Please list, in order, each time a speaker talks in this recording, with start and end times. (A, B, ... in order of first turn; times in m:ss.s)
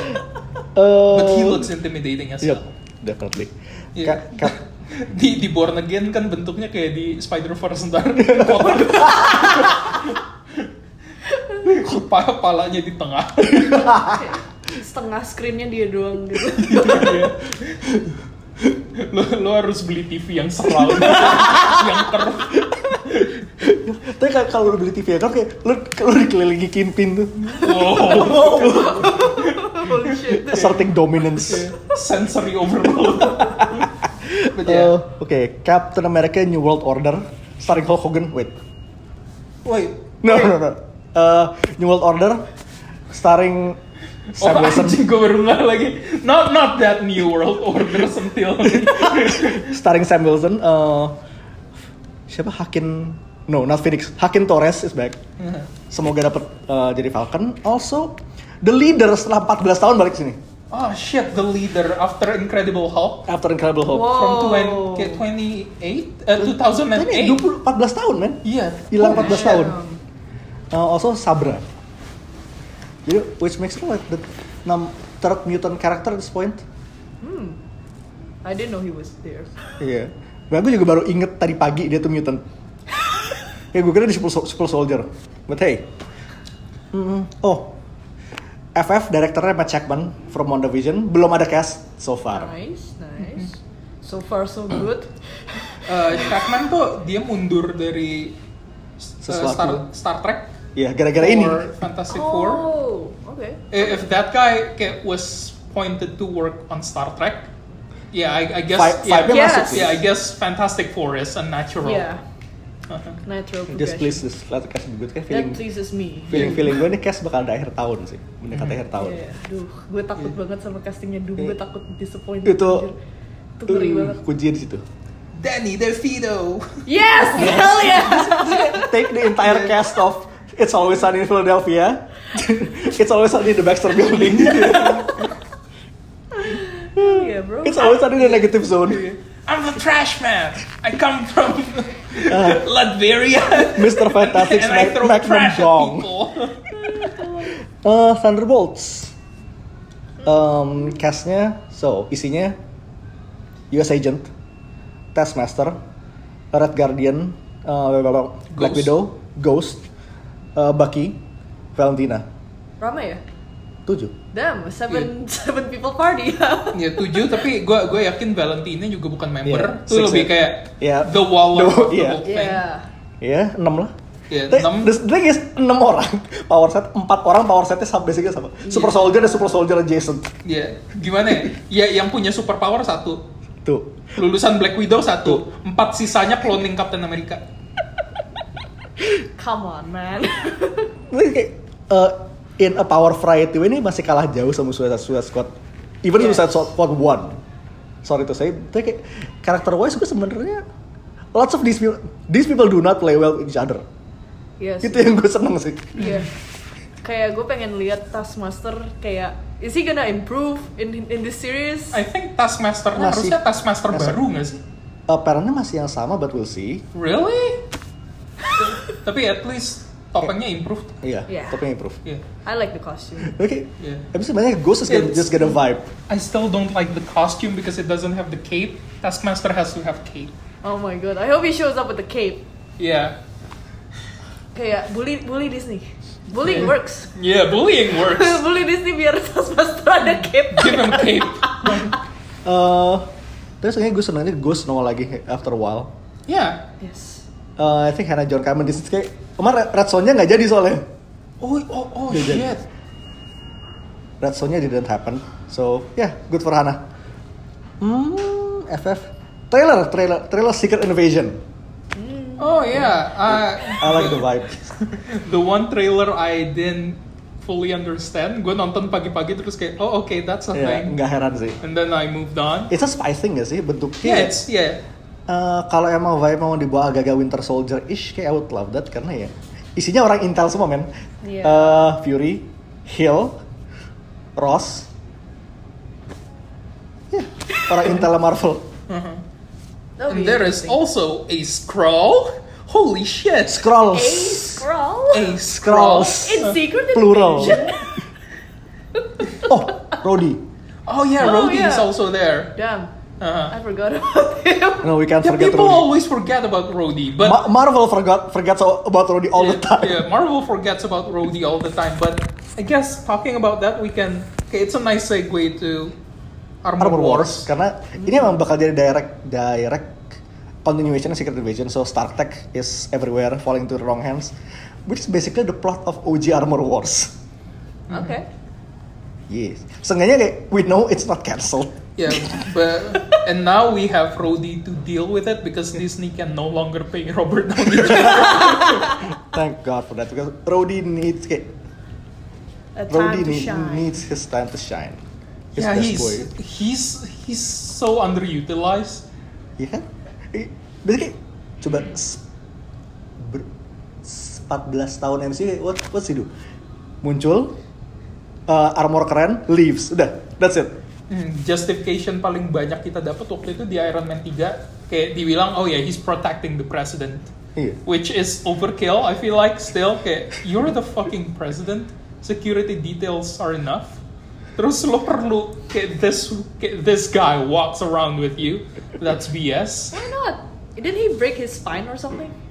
0:00.7-0:01.7 A
0:01.1-0:02.7 B
0:02.4-0:04.5 A
0:04.0-0:10.7 B
0:08.2-0:09.8 A
0:11.6-0:14.0 B
0:13.5-0:14.1 A
0:14.0-0:17.2 C
0:16.6-0:17.9 B
0:18.9-0:23.4 B
0:20.8-0:21.8 A
0:22.6-0:23.0 A
0:23.6-0:29.3 A
0:27.5-0:30.0 B
0:27.8-0:30.9 C
0:30.2-0:31.7 A
0:30.5-0:33.9 B
0:32.8-0:38.6 A
0:34.5-0:34.9 B
0:39.6-0:40.4 B
0:40.2-0:42.4 A
0:43.1-0:43.8 A
0:44.3-0:49.7 B
0:44.4-0:45.0 A
0:48.7-0:51.2 A
0:52.3-0:55.2 A
0:55.4-0:55.7 B
0:55.9-1:00.4 A
1:00.7-1:03.2 B
1:03.3-1:04.1 A
1:03.9-1:05.2 C
1:04.0-1:07.5 B
1:06.4-1:09.8 A
1:08.4-1:09.7 B
1:09.0-1:10.0 C
1:10.7-1:11.6 A
1:13.0-1:16.6 A
1:17.2-1:17.6 C
1:18.4-1:19.6 C
1:19.8-1:22.4 A
1:23.7-1:25.9 A
1:26.9-1:27.8 A
1:28.7-1:32.5 A
1:32.3-1:36.3 C
1:35.8-1:38.4 B
1:39.0-1:40.5 B
1:39.2-1:39.8 A
1:40.7-1:41.6 A
1:41.1-1:42.7 B
1:42.1-1:44.0 C
1:43.7-1:47.5 B
1:48.1-1:52.1 B
1:48.7-1:50.0 A
1:49.2-1:49.9 C
1:51.8-1:52.2 C
1:52.9-1:53.2 B
1:53.2-1:54.2 C
1:53.7-1:55.6 A
1:55.3-1:56.7 C
1:56.3-1:56.8 B
1:56.3-1:59.2 A
1:58.5-1:58.8 B
1:59.0-2:03.0 C
2:02.4-2:02.8 A
2:03.6-2:04.2 C
2:03.6-2:04.8 A
2:05.4-2:08.0 B
2:06.8-2:09.1 C
2:07.4-2:15.1 A
2:09.4-2:09.7 B
2:14.0-2:15.3 B
2:16.3-2:18.5 C
2:17.0-2:19.0 A
2:18.8-2:26.6 B
2:22.2-2:22.6 A
2:23.6-2:26.1 A
2:26.7-2:27.6 C
2:27.8-2:29.1 A
2:30.2-2:32.6 A
2:33.7-2:34.3 A
2:35.1-2:35.8 A
2:36.5-2:39.8 A
2:38.5-2:38.9 B
2:40.6-2:41.2 A
2:41.8-2:42.2 A
2:42.8-2:43.2 C
2:43.9-2:44.2 A
2:44.3-2:47.3 C
2:46.7-2:52.6 B
2:49.4-2:52.2 A
2:52.2-2:52.9 C
2:53.2-2:53.9 A
2:54.3-2:54.9 B
2:54.5-3:00.3 A
2:58.6-2:59.6 C
3:00.4-3:03.2 B
3:03.6-3:04.1 A
3:04.2-3:07.4 B
3:09.4-3:10.9 C
3:11.1-3:17.4 A
3:16.2-3:16.6 C
3:18.0-3:20.6 A
3:21.3-3:23.8 A
3:24.6-3:25.1 C
3:24.8-3:26.2 A
3:26.0-3:26.3 B
3:26.0-3:26.3 C
3:27.0-3:32.0 C
3:31.9-3:34.6 B
3:32.9-3:34.2 A
3:35.1-3:36.8 A
3:36.9-3:37.6 B
3:38.5-3:41.0 B
3:41.0-3:42.0 A
3:41.3-3:41.6 C
3:42.4-3:43.4 C
3:43.2-3:45.9 A
3:43.8-3:44.1 B
3:44.8-3:45.5 B
3:46.1-3:50.3 B
3:50.6-3:52.4 C
3:52.8-3:53.2 B
3:54.5-3:57.1 C
3:56.4-3:58.4 B
3:57.9-4:02.0 C
4:00.5-4:01.9 B
4:02.4-4:03.0 A
4:03.6-4:05.9 A
4:06.3-4:06.6 B
4:06.8-4:07.2 C
4:07.6-4:10.8 A
4:11.4-4:12.6 B
4:12.1-4:12.6 A
4:14.2-4:16.8 A
4:17.8-4:21.4 A
4:21.9-4:23.0 C
4:22.4-4:24.3 B
4:23.3-4:24.7 A
4:24.8-4:30.9 B
4:30.5-4:31.6 A
4:31.6-4:32.7 B
4:32.7-4:34.4 A
4:34.0-4:34.8 B
4:35.3-4:40.9 A
4:41.2-4:41.9 C
4:41.4-4:43.4 A
4:44.4-4:44.9 A
4:47.1-4:48.7 A
4:47.5-4:47.9 C
4:48.9-4:49.2 B
4:50.0-4:50.8 C
4:50.1-4:53.7 B
4:53.4-4:54.6 A
4:53.9-4:58.0 C
4:55.1-4:56.6 B
4:55.4-4:57.7 A
4:57.4-4:57.7 B
4:59.0-5:00.0 C
4:59.4-5:00.4 A
5:00.8-5:02.5 B
5:01.2-5:01.9 C
5:02.5-5:02.9 C
5:03.2-5:03.5 B
5:03.5-5:04.9 C
5:04.8-5:05.9 A
5:05.2-5:07.4 B
5:07.2-5:10.1 A
5:09.4-5:15.9 B
5:16.6-5:17.5 B
5:16.8-5:24.3 A
5:24.8-5:27.1 A
5:27.9-5:28.2 B
5:27.9-5:28.2 C
5:29.3-5:31.8 A
5:32.0-5:38.9 B
5:37.8-5:41.5 A
5:37.9-5:39.1 C
5:42.8-5:44.0 C
5:42.9-5:45.0 A
5:45.5-5:46.3 A
5:45.5-5:49.0 B
5:49.6-5:52.2 A
5:53.2-5:53.5 A
5:54.0-5:56.3 A
5:57.0-5:57.5 A
5:58.5-6:00.8 A
6:01.1-6:07.3 B
6:07.8-6:14.0 B
6:14.6-6:20.0 B
6:19.9-6:22.3 C